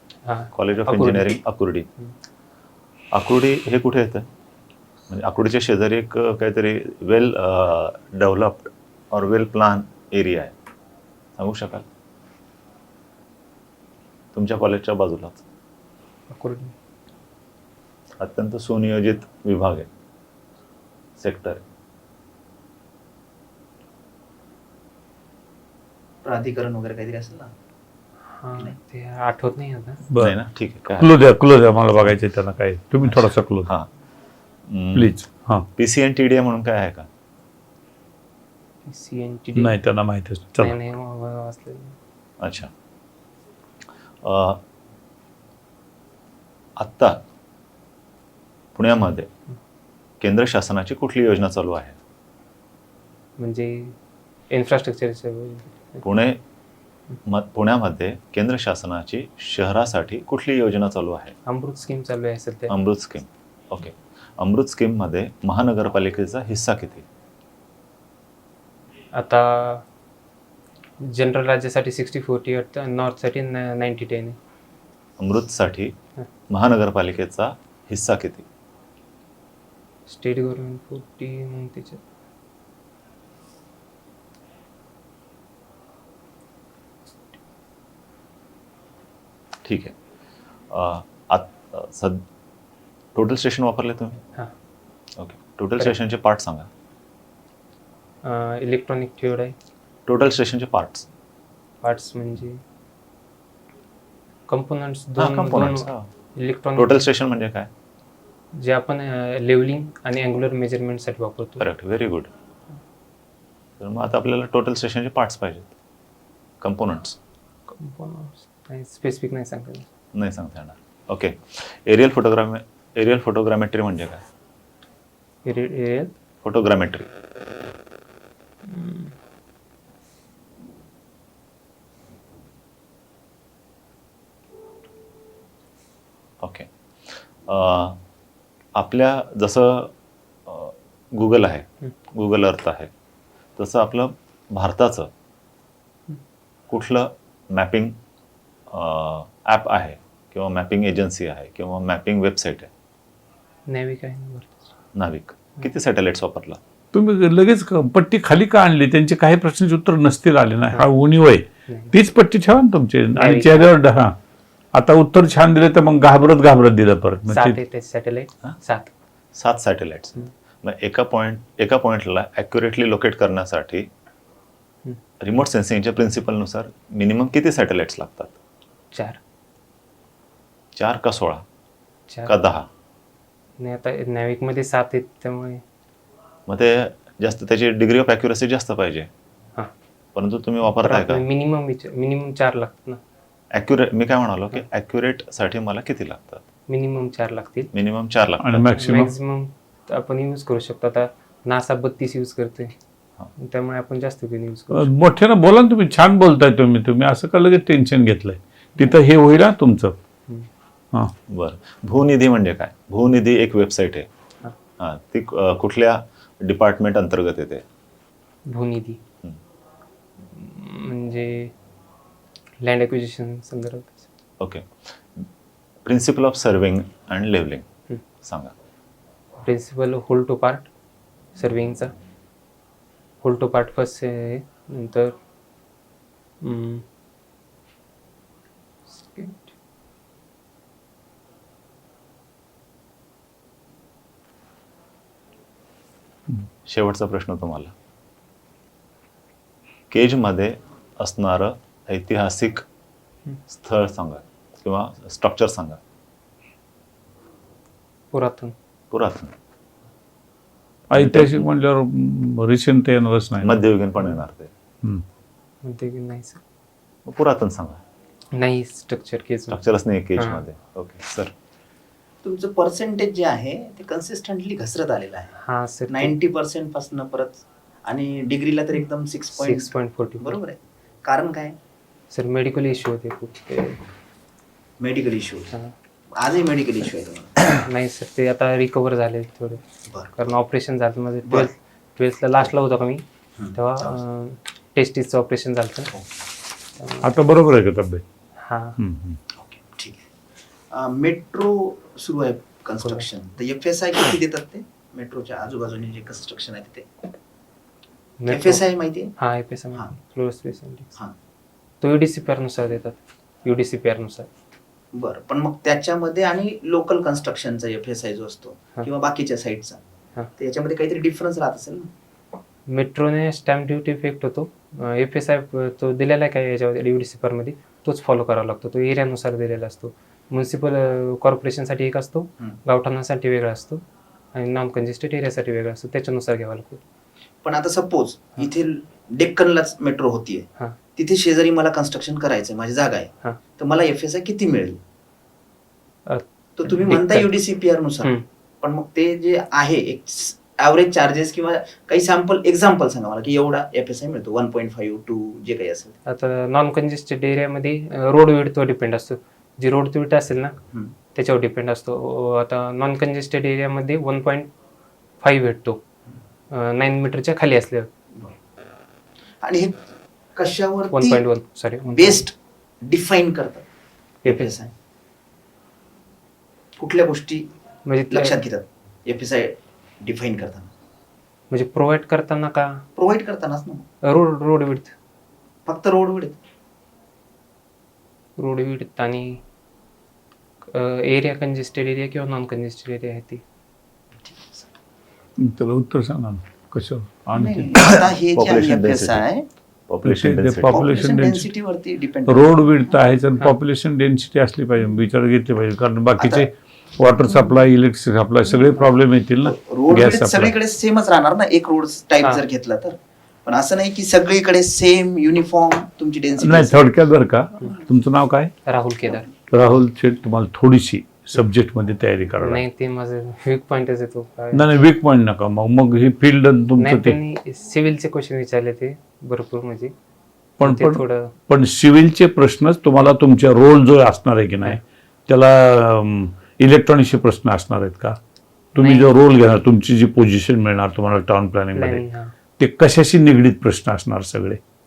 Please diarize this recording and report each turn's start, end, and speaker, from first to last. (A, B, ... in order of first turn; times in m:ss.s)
0:00.2-0:01.4 A
0:00.5-0:01.9 B
0:03.1-0:04.3 B
0:05.1-0:10.5 B
0:11.4-0:11.8 B
0:14.3-0:15.4 B
0:16.3-0:16.7 A
0:18.2-0:19.9 B
0:21.2-0:21.6 B
0:26.2-0:27.5 C
0:28.3-0:30.0 A
0:30.1-0:30.4 D
0:30.2-0:31.2 B
0:30.9-0:33.7 D
0:34.7-0:35.1 B
0:34.9-0:35.6 D
0:35.8-0:37.1 B
0:38.8-0:39.7 A
0:39.6-0:40.8 D
0:40.6-0:42.0 A
0:42.4-0:42.7 B
0:44.2-0:44.6 B
0:46.8-0:47.2 B
0:48.7-0:49.3 B
0:50.2-0:52.0 B
0:53.4-0:54.0 A
0:54.5-0:56.0 A
0:56.0-0:56.4 B
0:57.2-1:01.3 B
1:01.4-1:02.7 A
1:02.7-1:07.0 B
1:09.1-1:09.8 A
1:11.0-1:14.4 A
1:15.2-1:15.9 B
1:16.5-1:18.4 B
1:20.1-1:22.0 A
1:29.6-1:29.9 B
1:30.7-1:32.2 B
1:33.1-1:34.2 B
1:35.2-1:36.7 B
1:38.2-1:39.5 A
1:40.1-1:41.0 B
1:41.8-1:42.6 A
1:44.5-1:47.1 A
1:45.2-1:46.1 B
1:46.8-1:47.7 B
1:48.5-1:51.7 A
1:51.6-1:52.3 B
1:53.8-1:55.7 B
1:56.6-1:57.2 B
1:57.7-1:59.9 A
2:00.1-2:04.2 B
2:05.4-2:06.1 A
2:06.4-2:07.1 B
2:08.6-2:09.1 A
2:16.4-2:18.0 B
2:18.8-2:19.9 B
2:20.5-2:22.9 B
2:23.6-2:25.1 B
2:26.7-2:27.9 B
2:28.7-2:32.7 B
2:33.7-2:34.6 A
2:34.9-2:36.6 B
2:36.9-2:44.1 D
2:41.7-2:41.9 A
2:43.2-2:43.7 A
2:44.7-2:47.6 D
2:47.3-2:48.9 A
2:49.3-2:53.9 B
2:55.2-2:58.4 B
2:58.9-2:59.2 A
3:00.8-3:01.4 B
3:02.2-3:02.7 B
3:03.6-3:05.6 A
3:06.5-3:09.1 B
3:10.1-3:11.2 B
3:10.8-3:13.0 A
3:13.5-3:16.4 B
3:16.7-3:17.7 A
3:17.7-3:18.8 B
3:18.4-3:19.1 D
3:18.7-3:22.7 A
3:23.4-3:24.9 A
3:24.7-3:30.0 D
3:31.3-3:34.1 B
3:34.8-3:37.6 B
3:38.5-3:39.0 A
3:40.3-3:41.5 A
3:42.6-3:44.0 A
3:44.4-3:44.7 B
3:45.8-3:47.6 B
3:48.2-3:48.5 B
3:49.4-3:50.7 A
3:51.3-3:51.9 A
3:53.2-3:55.1 A
3:56.4-3:56.8 A
3:58.9-3:59.5 A
4:06.7-4:07.7 B
4:09.9-4:12.6 B
4:13.5-4:15.8 B
4:18.1-4:18.5 A
4:18.9-4:19.3 B
4:20.9-4:23.6 D
4:20.9-4:21.4 B
4:23.4-4:24.5 B
4:25.6-4:26.4 A
4:27.0-4:27.8 B
4:28.3-4:29.6 A
4:29.5-4:31.3 B
4:30.2-4:30.4 A
4:32.2-4:35.3 C
4:35.4-4:36.1 A
4:35.9-4:41.6 C
4:39.3-4:40.4 A
4:42.1-4:43.8 A
4:44.8-4:45.5 C
4:46.1-4:47.4 C
4:47.6-4:49.6 A
4:50.1-4:55.9 A
4:53.4-4:54.0 C
4:56.8-4:57.1 A
4:57.0-4:58.0 D
4:58.4-4:58.8 A
4:58.8-4:59.2 D
4:59.3-5:00.0 C
5:00.7-5:06.9 C
5:02.8-5:03.0 A
5:08.2-5:08.6 A
5:08.2-5:09.1 C
5:09.2-5:10.9 A
5:11.8-5:14.3 A
5:14.9-5:19.8 C
5:20.4-5:21.9 C
5:22.7-5:33.8 A
5:34.3-5:36.8 A
5:37.4-5:40.4 C
5:41.0-5:44.8 C
5:46.0-5:47.3 A
5:46.6-5:55.9 C
5:56.0-6:00.6 A
6:01.1-6:04.5 A
6:05.2-6:05.8 A
6:06.5-6:07.9 A
6:09.4-6:09.8 C
6:10.4-6:11.2 C
6:10.9-6:12.3 A
6:11.9-6:13.6 C
6:14.2-6:14.6 A
6:14.2-6:14.7 C
6:16.8-6:17.5 C
6:17.8-6:18.4 A
6:18.1-6:20.7 C
6:21.5-6:22.8 A
6:23.0-6:23.8 C
6:24.0-6:24.9 A
6:25.6-6:26.4 C
6:28.4-6:29.4 A
6:30.7-6:33.4 A
6:34.2-6:34.7 C
6:35.4-6:37.8 D
6:37.3-6:39.5 C
6:37.7-6:39.3 B
6:39.9-6:40.8 B
6:40.0-6:41.5 D
6:40.7-6:42.5 C
6:42.2-6:50.5 D
6:46.2-6:46.5 C
6:47.2-6:47.5 C
6:48.4-6:48.8 C
6:49.4-6:56.8 C
6:56.4-6:58.5 D
6:58.6-6:59.3 A
6:59.5-7:02.6 D
7:02.4-7:04.6 A
7:04.5-7:07.2 D
7:06.8-7:09.9 A
7:10.6-7:18.2 D
7:10.6-7:11.3 A
7:18.7-7:22.0 D
7:18.8-7:19.2 A
7:21.7-7:22.3 A
7:22.6-7:24.6 D